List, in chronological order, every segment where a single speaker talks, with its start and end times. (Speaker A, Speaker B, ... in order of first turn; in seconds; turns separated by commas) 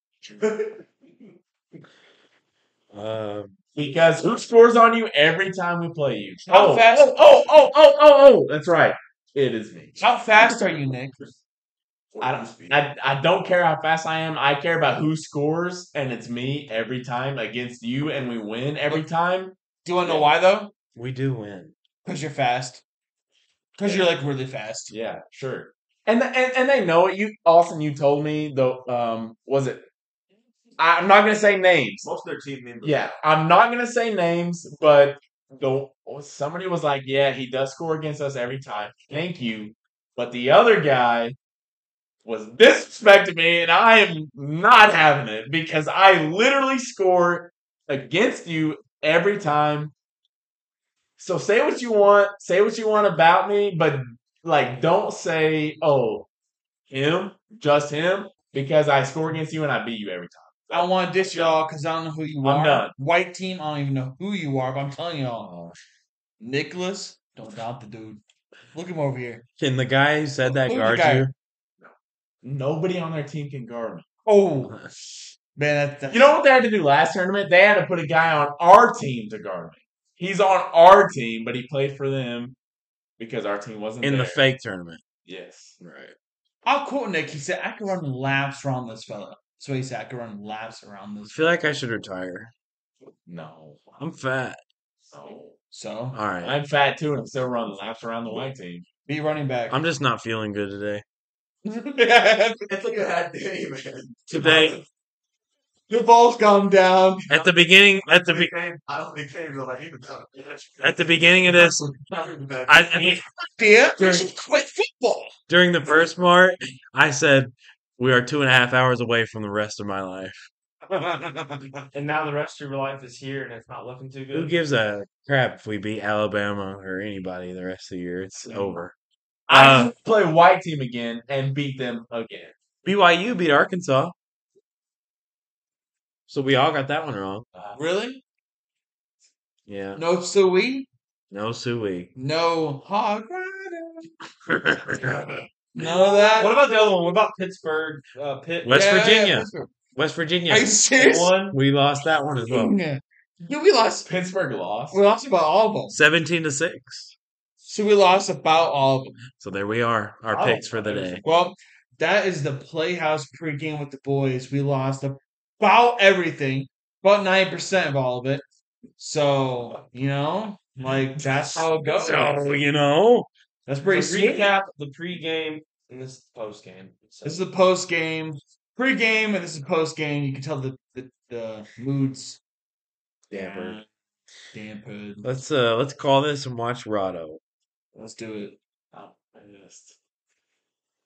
Speaker A: 0.2-0.8, Speaker B: 2.9-3.5, Speaker A: 3.7-10.0, Speaker C: 6.5-7.2, Speaker C: 10.0-11.2, Speaker A: 12.2-20.3, Speaker C: 19.8-20.7, Speaker B: 20.9-21.7, Speaker C: 22.0-22.8, Speaker C: 23.8-24.9, Speaker A: 23.8-24.1, Speaker A: 24.9-29.9, Speaker A: 30.8-32.1, Speaker D: 32.0-32.9, Speaker A: 32.8-41.4, Speaker A: 42.2-49.9, Speaker A: 51.2-56.3, Speaker A: 56.9-61.6, Speaker C: 60.7-65.5, Speaker A: 62.4-62.9, Speaker A: 65.4-65.7, Speaker C: 66.4-68.2, Speaker C: 68.7-69.4, Speaker B: 69.6-71.3, Speaker C: 70.5-71.3, Speaker A: 71.8-74.0, Speaker C: 74.2-74.8, Speaker B: 74.6-74.9, Speaker C: 75.5-76.4, Speaker A: 76.1-82.5, Speaker A: 83.2-84.4, Speaker B: 84.0-85.0, Speaker A: 85.2-85.8, Speaker B: 85.8-86.1, Speaker C: 86.6-91.7, Speaker B: 91.2-92.5, Speaker A: 93.3-94.1, Speaker B: 94.0-94.6, Speaker A: 95.1-95.6, Speaker C: 95.7-96.2, Speaker B: 96.1-96.6, Speaker A: 96.4-98.8, Speaker C: 99.0-99.8, Speaker B: 99.7-101.0, Speaker C: 101.6-102.7, Speaker A: 102.7-104.5, Speaker B: 104.3-104.8, Speaker C: 104.4-104.8, Speaker C: 105.9-107.3, Speaker B: 107.3-108.5, Speaker A: 108.2-113.1, Speaker B: 110.8-112.0, Speaker B: 112.7-113.2, Speaker C: 113.6-115.3, Speaker B: 115.5-121.8, Speaker D: 121.9-124.5, Speaker B: 124.3-128.9, Speaker A: 128.3-128.8, Speaker B: 129.5-129.9, Speaker A: 129.5-132.5, Speaker B: 132.8-134.1, Speaker B: 136.3-137.4, Speaker A: 137.5-137.8, Speaker C: 137.7-138.2, Speaker B: 139.7-140.0, Speaker C: 139.9-140.9, Speaker B: 141.3-142.1, Speaker C: 142.1-144.1, Speaker B: 144.5-145.4, Speaker C: 145.7-146.5, Speaker D: 146.3-148.8, Speaker B: 148.6-150.8, Speaker C: 148.7-149.7, Speaker C: 150.5-151.4, Speaker D: 150.9-151.6, Speaker B: 151.5-152.8, Speaker C: 152.4-154.1, Speaker A: 154.1-155.0, Speaker C: 154.9-155.9, Speaker B: 155.9-157.1, Speaker C: 157.6-159.2, Speaker B: 159.4-161.2, Speaker C: 160.3-168.4, Speaker C: 169.0-172.2, Speaker B: 171.2-173.3, Speaker C: 173.7-174.5, Speaker D: 173.8-177.4, Speaker C: 177.2-182.4, Speaker B: 183.3-183.8, Speaker C: 183.3-183.8, Speaker C: 184.5-185.3, Speaker B: 185.2-187.4, Speaker C: 187.9-188.6, Speaker A: 188.9-189.9